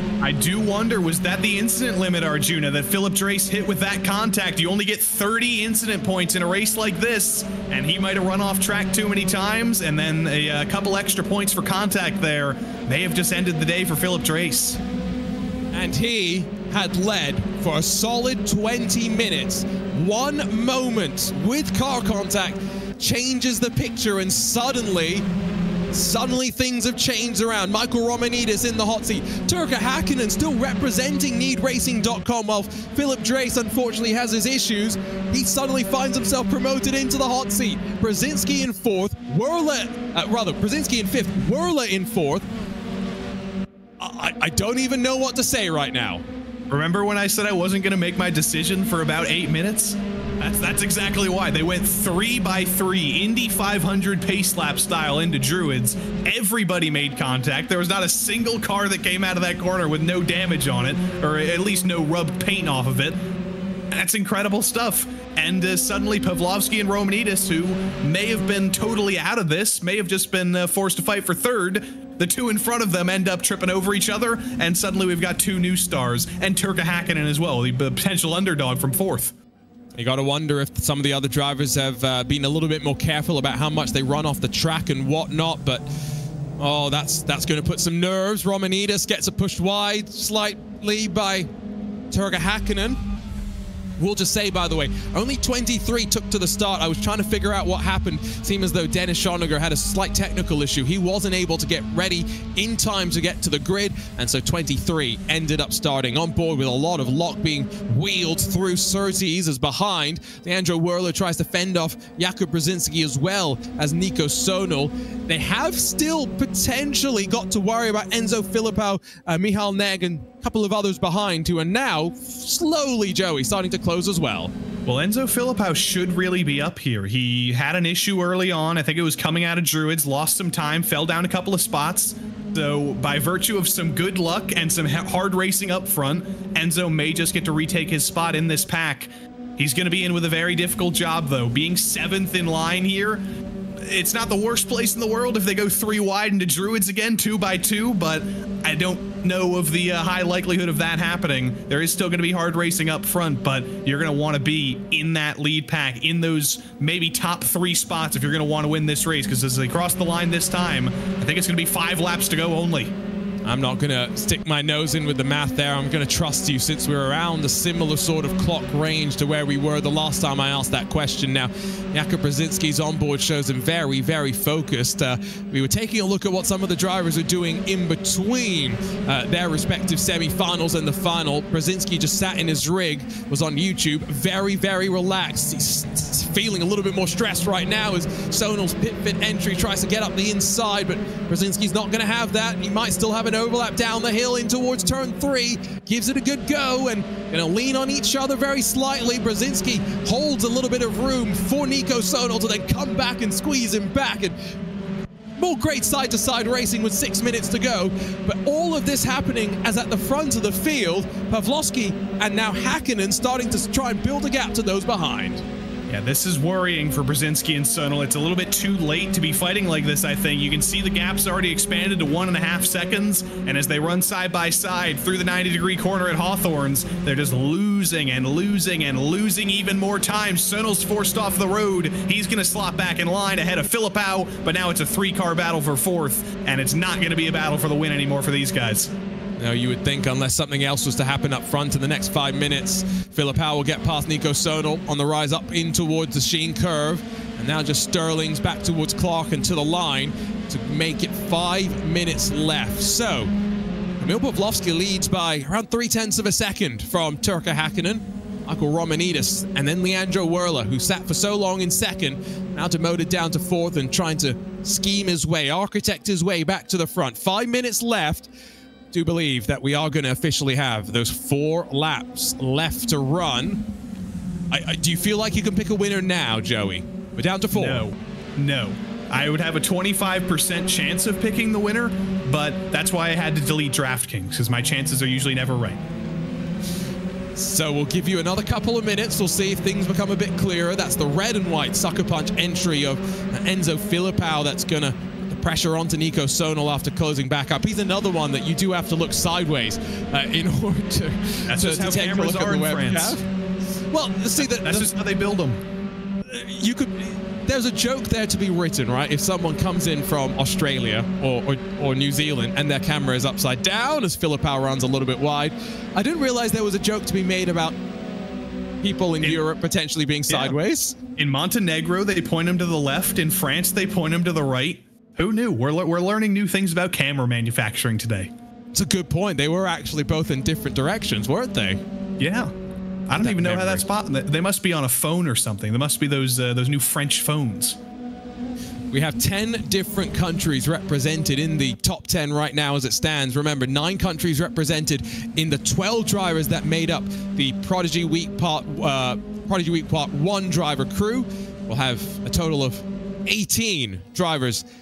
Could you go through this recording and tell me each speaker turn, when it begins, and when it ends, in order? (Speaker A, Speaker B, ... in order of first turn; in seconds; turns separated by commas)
Speaker A: 0.2-14.8, Speaker B: 15.7-25.3, Speaker B: 25.9-42.5, Speaker B: 44.0-46.2, Speaker A: 46.7-63.2, Speaker A: 63.9-79.3, Speaker B: 80.0-85.9, Speaker B: 86.6-91.5, Speaker B: 92.1-93.0, Speaker B: 94.0-124.5, Speaker A: 124.9-143.2, Speaker A: 143.8-162.9, Speaker B: 163.4-204.3, Speaker B: 205.4-215.4, Speaker A: 215.9-238.9, Speaker B: 239.4-253.3, Speaker B: 254.0-268.3, Speaker B: 268.9-273.6, Speaker B: 274.5-277.9, Speaker A: 277.5-285.8, Speaker B: 287.4-303.2, Speaker A: 301.5-303.2, Speaker B: 303.9-304.9, Speaker A: 304.4-305.6, Speaker B: 306.3-317.8, Speaker B: 318.8-321.0, Speaker A: 320.3-320.6, Speaker A: 321.2-328.3, Speaker B: 328.7-331.8, Speaker A: 332.2-332.5, Speaker A: 333.1-337.8, Speaker B: 333.2-333.9, Speaker B: 338.9-354.6